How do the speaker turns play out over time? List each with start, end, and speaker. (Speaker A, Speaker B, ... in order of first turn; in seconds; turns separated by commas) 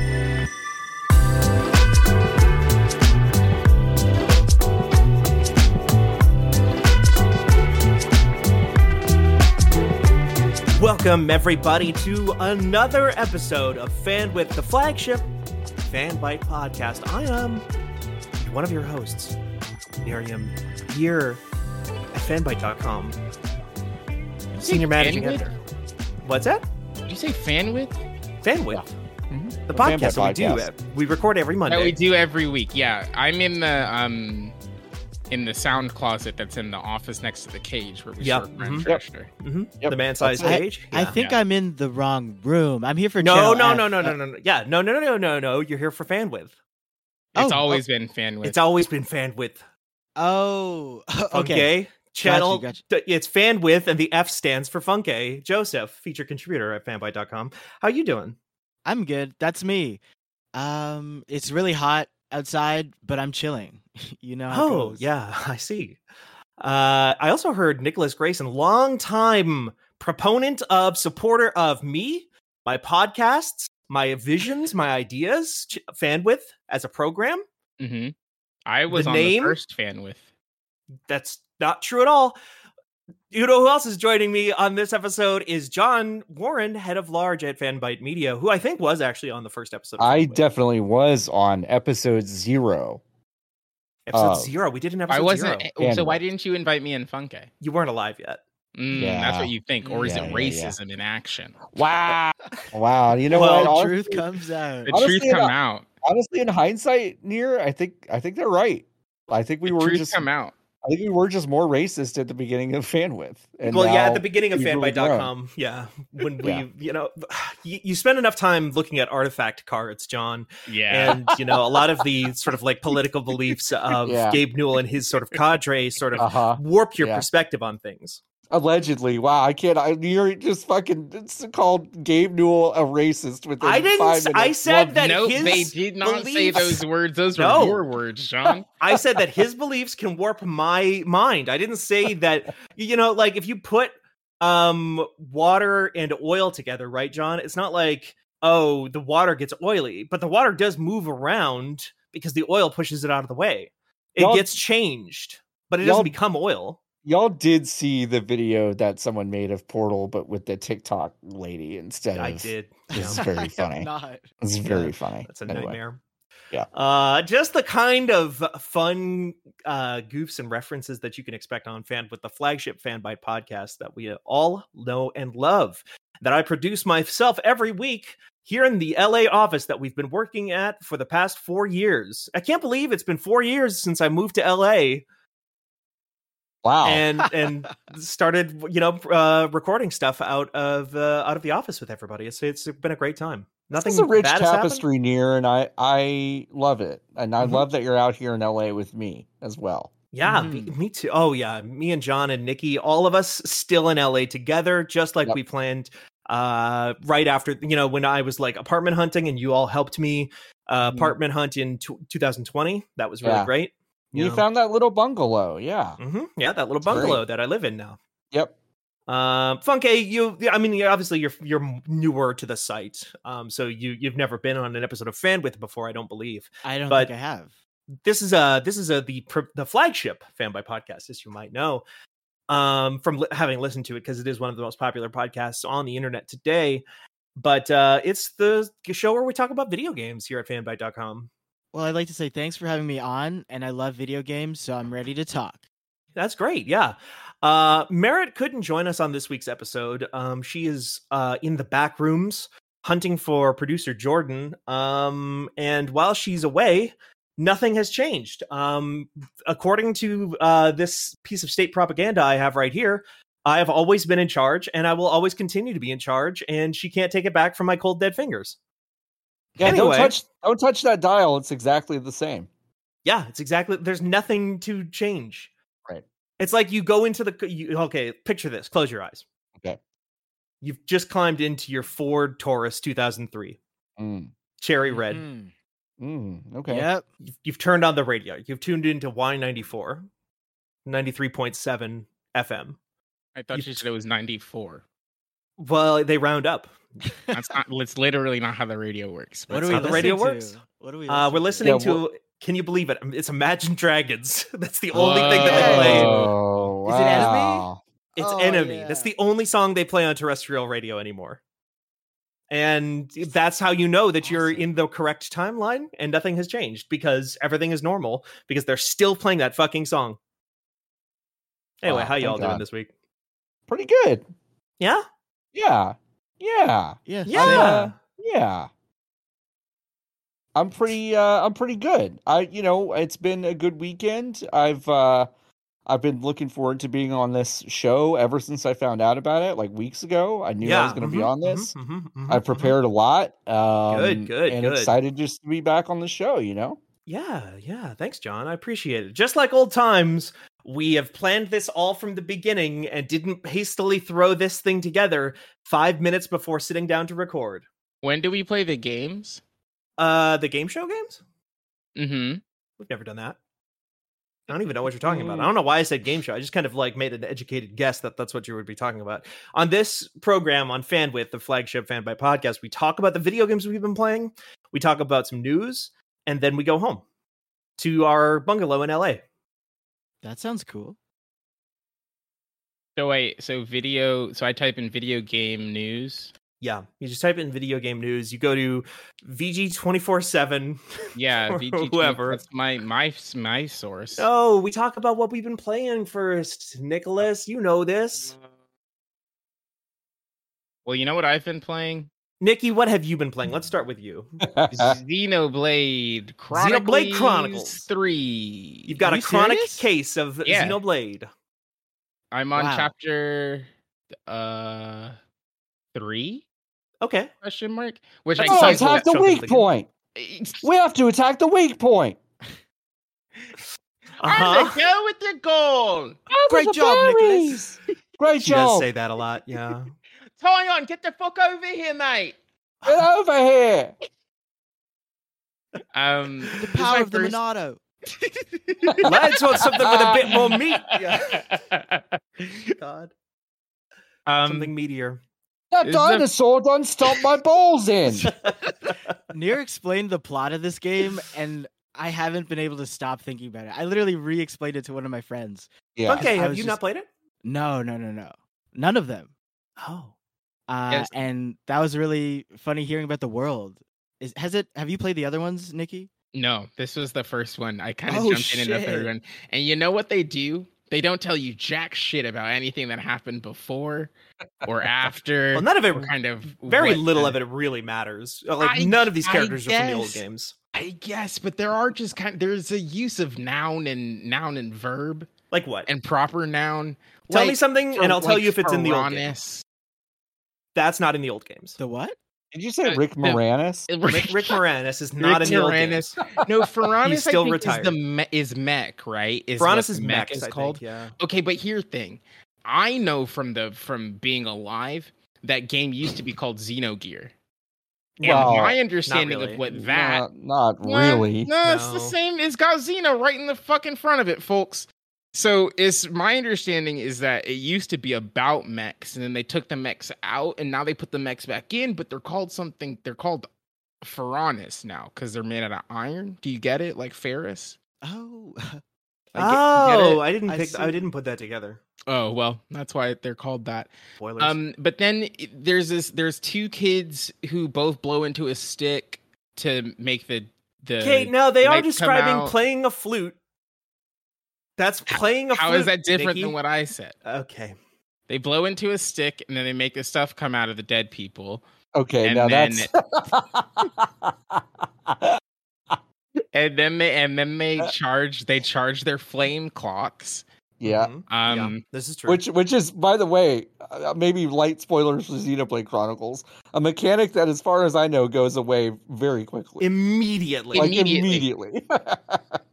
Speaker A: 10.8-15.3, Speaker A: 15.8-17.7, Speaker A: 18.4-19.4, Speaker A: 20.0-21.4, Speaker A: 22.1-23.2, Speaker A: 24.6-25.6, Speaker B: 24.6-25.4, Speaker A: 26.2-26.7, Speaker B: 27.1-28.0, Speaker A: 28.4-28.9, Speaker C: 28.7-30.7, Speaker A: 29.7-32.0, Speaker B: 31.7-34.5, Speaker B: 35.3-39.3, Speaker A: 38.2-38.9, Speaker A: 39.4-41.1, Speaker C: 39.8-40.6, Speaker D: 40.4-44.2, Speaker A: 43.2-46.5, Speaker B: 47.3-48.6, Speaker D: 47.4-47.8, Speaker A: 48.4-49.6, Speaker D: 50.2-52.8, Speaker A: 51.3-58.4, Speaker D: 58.9-60.0, Speaker D: 60.5-65.0, Speaker A: 64.5-66.0, Speaker A: 66.6-77.5, Speaker B: 77.8-78.1, Speaker B: 78.7-80.3, Speaker A: 78.9-79.6, Speaker A: 81.1-82.4, Speaker A: 83.3-90.4, Speaker C: 90.0-93.0, Speaker A: 94.1-95.7, Speaker C: 94.1-94.5, Speaker B: 95.1-97.5, Speaker C: 95.8-96.2, Speaker A: 97.6-98.4, Speaker B: 98.8-101.8, Speaker C: 98.9-100.8, Speaker D: 99.8-100.2, Speaker C: 101.8-104.2, Speaker A: 103.3-103.8, Speaker D: 103.3-105.0, Speaker B: 104.9-105.9, Speaker C: 104.9-110.3, Speaker B: 109.7-110.5, Speaker C: 110.8-115.3, Speaker A: 113.7-128.2, Speaker B: 120.7-121.2, Speaker C: 121.0-121.8, Speaker C: 124.0-124.4, Speaker C: 126.2-127.3, Speaker C: 128.5-134.6, Speaker A: 133.6-136.8, Speaker B: 134.7-138.7, Speaker C: 135.4-135.7, Speaker A: 137.3-137.8, Speaker A: 138.8-156.8, Speaker C: 154.2-154.6, Speaker C: 155.8-156.2, Speaker C: 157.1-163.9, Speaker A: 162.1-163.2, Speaker D: 162.9-164.3, Speaker C: 164.4-165.8, Speaker A: 164.7-166.0, Speaker A: 166.7-185.1, Speaker C: 186.6-187.1, Speaker A: 186.8-194.8, Speaker C: 193.7-199.9, Speaker A: 197.4-197.7, Speaker A: 200.1-214.4, Speaker D: 200.2-200.7, Speaker B: 210.9-211.1, Speaker C: 213.2-213.5, Speaker C: 214.1-216.0, Speaker A: 216.0-218.0, Speaker C: 216.8-217.2, Speaker A: 219.1-227.1, Speaker D: 226.6-227.5, Speaker A: 228.0-231.8, Speaker A: 232.5-236.8, Speaker A: 237.4-241.3, Speaker D: 241.7-245.6, Speaker A: 246.2-268.6, Speaker C: 269.6-272.5, Speaker A: 269.6-270.1, Speaker A: 273.1-275.5, Speaker A: 276.4-279.2, Speaker A: 280.6-283.6, Speaker C: 284.0-284.3, Speaker A: 284.6-285.2, Speaker D: 284.8-285.5, Speaker C: 286.0-286.9, Speaker D: 286.7-287.1, Speaker A: 287.4-290.1, Speaker A: 290.9-292.8, Speaker B: 293.4-294.8, Speaker A: 293.5-293.8, Speaker A: 295.6-296.8, Speaker B: 297.3-300.1, Speaker D: 299.5-301.9, Speaker A: 299.6-300.6, Speaker A: 301.1-306.1, Speaker C: 301.6-302.0, Speaker B: 304.9-306.2, Speaker D: 305.3-306.3, Speaker C: 305.5-307.8, Speaker D: 306.8-309.1, Speaker A: 308.2-311.4, Speaker A: 312.5-320.2, Speaker D: 314.2-314.7, Speaker A: 321.8-322.9, Speaker C: 321.9-322.6, Speaker C: 323.7-324.2, Speaker C: 325.6-328.7, Speaker D: 327.1-327.8, Speaker A: 327.3-327.9, Speaker C: 330.6-335.3, Speaker C: 335.9-341.7, Speaker A: 340.6-342.8, Speaker C: 342.3-346.8, Speaker A: 343.9-344.9, Speaker A: 347.1-357.7, Speaker B: 358.0-359.4, Speaker A: 360.0-361.2, Speaker B: 362.0-362.4, Speaker A: 362.8-363.4, Speaker A: 364.5-377.0, Speaker C: 365.1-365.5, Speaker A: 377.8-379.2, Speaker D: 380.2-381.0, Speaker B: 383.0-386.3, Speaker A: 386.6-390.8, Speaker B: 391.1-394.3, Speaker A: 391.5-392.4, Speaker A: 394.2-398.4, Speaker B: 400.9-402.1, Speaker A: 402.4-404.4, Speaker C: 404.4-405.0, Speaker B: 404.7-409.0, Speaker A: 406.5-407.9, Speaker A: 408.9-411.3, Speaker D: 409.0-409.9, Speaker B: 410.4-410.8, Speaker B: 412.3-413.7, Speaker D: 412.6-412.9, Speaker B: 414.3-415.2, Speaker B: 415.9-416.4, Speaker A: 417.0-417.3, Speaker B: 417.4-419.1, Speaker A: 418.4-419.7, Speaker C: 418.4-419.9, Speaker B: 420.2-420.6, Speaker C: 420.6-422.2, Speaker B: 424.2-426.2, Speaker A: 424.2-424.8, Speaker C: 426.3-428.9, Speaker D: 426.5-427.4, Speaker A: 428.4-429.9, Speaker B: 430.4-432.4, Speaker C: 432.9-433.9, Speaker B: 435.9-437.4, Speaker D: 436.5-438.3, Speaker B: 438.7-439.7, Speaker C: 438.9-439.1, Speaker A: 439.0-441.6, Speaker C: 439.8-440.4, Speaker B: 440.2-442.7, Speaker A: 442.8-443.1, Speaker B: 444.3-444.7, Speaker A: 444.4-445.2, Speaker C: 445.7-448.3, Speaker B: 445.9-446.3, Speaker D: 449.3-456.8, Speaker C: 456.0-456.3, Speaker A: 456.1-457.1, Speaker D: 457.4-459.3, Speaker A: 459.8-460.1, Speaker D: 460.7-466.1, Speaker B: 466.3-474.1, Speaker D: 468.1-469.1, Speaker B: 474.6-477.4, Speaker A: 475.5-480.6, Speaker B: 478.6-480.2, Speaker B: 480.7-485.3, Speaker A: 485.5-485.9, Speaker B: 485.9-489.6, Speaker A: 487.3-489.3, Speaker A: 490.8-491.8, Speaker D: 491.8-492.2, Speaker C: 492.5-493.9, Speaker B: 492.8-494.6, Speaker A: 494.0-496.2, Speaker B: 495.2-507.3, Speaker A: 497.0-498.0, Speaker A: 499.6-501.1, Speaker A: 508.2-509.6, Speaker B: 508.2-510.3, Speaker C: 508.2-508.8, Speaker C: 509.7-511.5, Speaker B: 510.8-523.5, Speaker A: 511.6-512.1, Speaker B: 524.0-527.8, Speaker D: 528.0-528.8, Speaker B: 529.3-530.2, Speaker A: 529.4-531.8, Speaker D: 530.5-531.0, Speaker B: 532.1-542.6, Speaker A: 534.2-534.6, Speaker A: 541.0-543.4, Speaker A: 544.8-546.5, Speaker B: 545.1-547.1, Speaker A: 547.2-547.7, Speaker B: 548.3-551.6, Speaker C: 552.0-555.4, Speaker B: 552.2-553.0, Speaker B: 556.5-560.4, Speaker C: 560.8-561.1, Speaker A: 560.9-562.4, Speaker B: 561.3-561.8, Speaker C: 562.3-569.9, Speaker A: 569.8-571.0, Speaker B: 570.7-571.5, Speaker C: 570.7-572.6